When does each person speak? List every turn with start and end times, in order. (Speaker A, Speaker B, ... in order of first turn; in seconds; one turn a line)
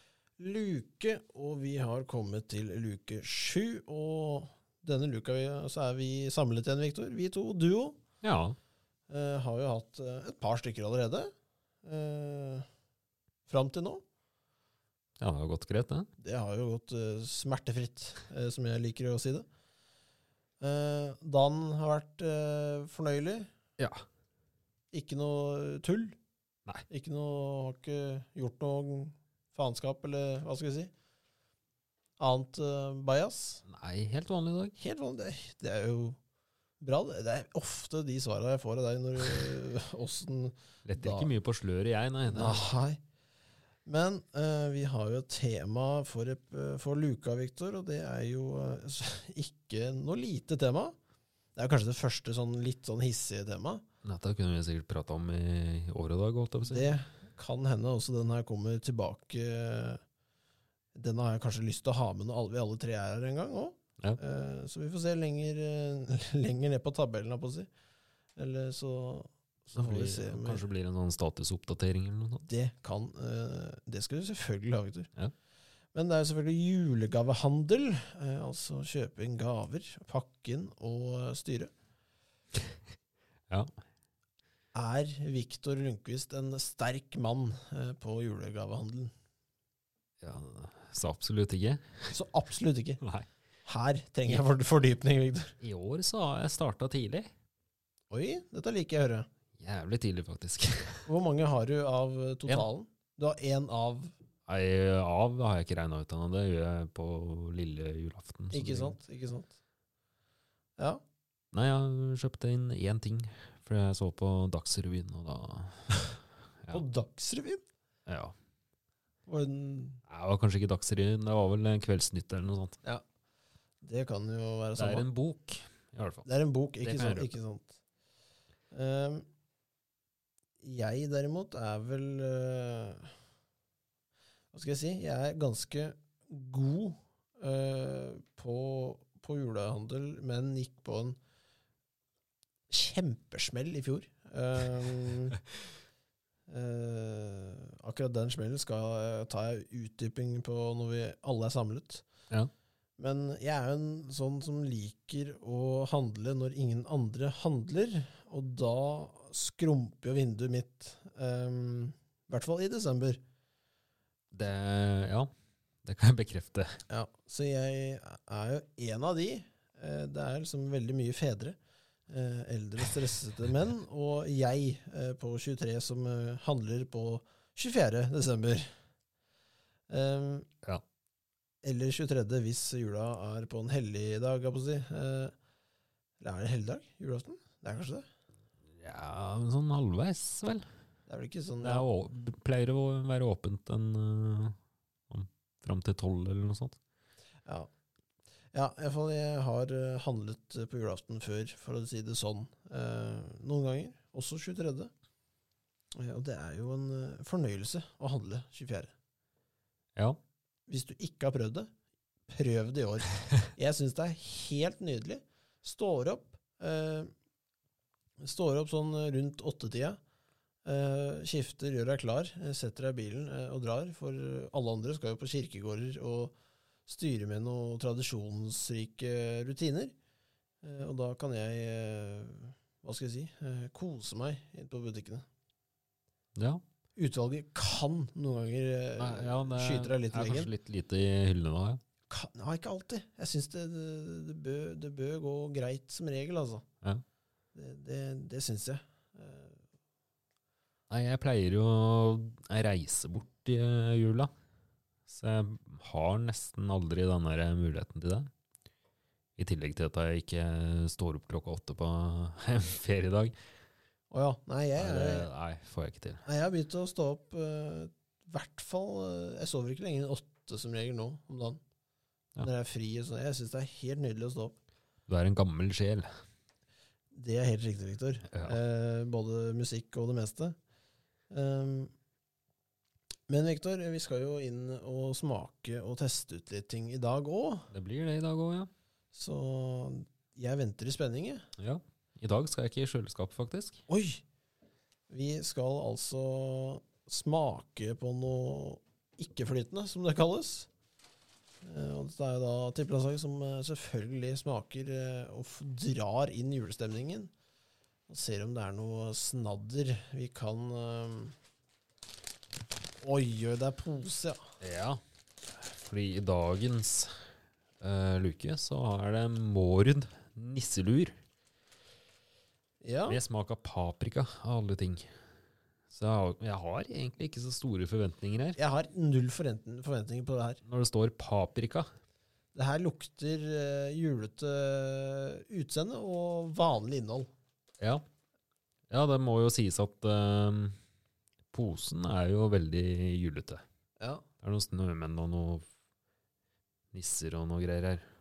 Speaker A: 0.4-8.0
Speaker B: 8.2-8.6
Speaker A: 9.1-11.3
Speaker A: 11.8-12.7
Speaker A: 13.5-14.0
Speaker B: 15.2-16.1
Speaker A: 16.2-19.5
Speaker A: 20.6-23.5
Speaker B: 23.8-24.0
Speaker A: 24.9-26.1
Speaker A: 26.9-30.9
Speaker A: 32.2-33.6
Speaker B: 33.7-34.8
Speaker A: 34.8-36.2
Speaker A: 36.8-41.3
Speaker B: 40.9-42.6
Speaker A: 42.3-43.0
Speaker A: 43.9-50.9
Speaker A: 51.5-53.8
Speaker B: 54.0-56.9
Speaker A: 56.7-60.0
Speaker A: 60.9-67.7
Speaker A: 68.3-70.6
Speaker B: 69.7-72.5
Speaker A: 72.4-75.1
Speaker A: 75.9-81.7
Speaker A: 84.7-89.1
Speaker B: 90.2-91.8
Speaker A: 92.1-93.0
Speaker B: 93.0-93.3
Speaker A: 93.7-95.5
Speaker B: 95.6-97.3
Speaker A: 98.1-99.3
Speaker B: 99.6-101.0
Speaker A: 101.0-104.1
Speaker B: 104.5-109.0
Speaker A: 108.5-109.6
Speaker B: 111.5-115.9
Speaker A: 116.7-117.6
Speaker B: 118.1-118.3
Speaker A: 119.3-120.0
Speaker B: 120.1-122.8
Speaker A: 123.8-125.1
Speaker B: 124.8-126.2
Speaker A: 126.2-127.8
Speaker B: 126.8-127.3
Speaker A: 128.7-129.2
Speaker A: 130.6-133.1
Speaker A: 134.5-141.2
Speaker A: 142.7-145.4
Speaker A: 146.5-152.1
Speaker A: 153.0-163.2
Speaker B: 164.3-165.3
Speaker B: 165.8-166.8
Speaker A: 166.9-171.6
Speaker A: 172.1-178.7
Speaker A: 179.9-180.5
Speaker A: 181.6-185.3
Speaker A: 186.2-188.1
Speaker B: 188.8-190.7
Speaker A: 191.1-191.9
Speaker B: 191.6-194.6
Speaker B: 195.1-196.8
Speaker A: 198.5-204.9
Speaker A: 205.9-208.9
Speaker A: 210.7-211.7
Speaker A: 212.3-217.1
Speaker A: 218.2-220.0
Speaker A: 220.7-226.3
Speaker A: 226.9-229.9
Speaker A: 230.6-235.2
Speaker B: 236.4-236.6
Speaker A: 237.0-240.5
Speaker B: 238.9-241.8
Speaker A: 242.1-246.7
Speaker A: 247.5-249.6
Speaker B: 250.9-254.3
Speaker B: 255.1-258.3
Speaker B: 259.4-263.3
Speaker A: 264.1-265.3
Speaker B: 264.8-266.2
Speaker A: 266.2-271.6
Speaker A: 272.4-274.6
Speaker B: 275.1-276.1
Speaker A: 277.1-280.6
Speaker B: 278.3-278.6
Speaker A: 281.3-281.9
Speaker A: 283.3-287.7
Speaker B: 287.7-288.7
Speaker A: 289.1-291.4
Speaker B: 291.6-293.8
Speaker A: 293.9-294.2
Speaker A: 295.1-300.7
Speaker A: 301.6-307.3
Speaker A: 308.1-311.4
Speaker A: 313.0-314.4
Speaker B: 314.6-315.0
Speaker B: 315.7-317.1
Speaker B: 317.8-321.2
Speaker A: 322.8-323.2
Speaker B: 323.1-325.1
Speaker B: 325.9-328.6
Speaker A: 328.6-330.6
Speaker B: 330.7-331.9
Speaker A: 332.5-337.3
Speaker B: 338.9-340.8
Speaker B: 341.5-343.6
Speaker A: 344.0-344.2
Speaker B: 344.4-345.6
Speaker B: 346.9-348.1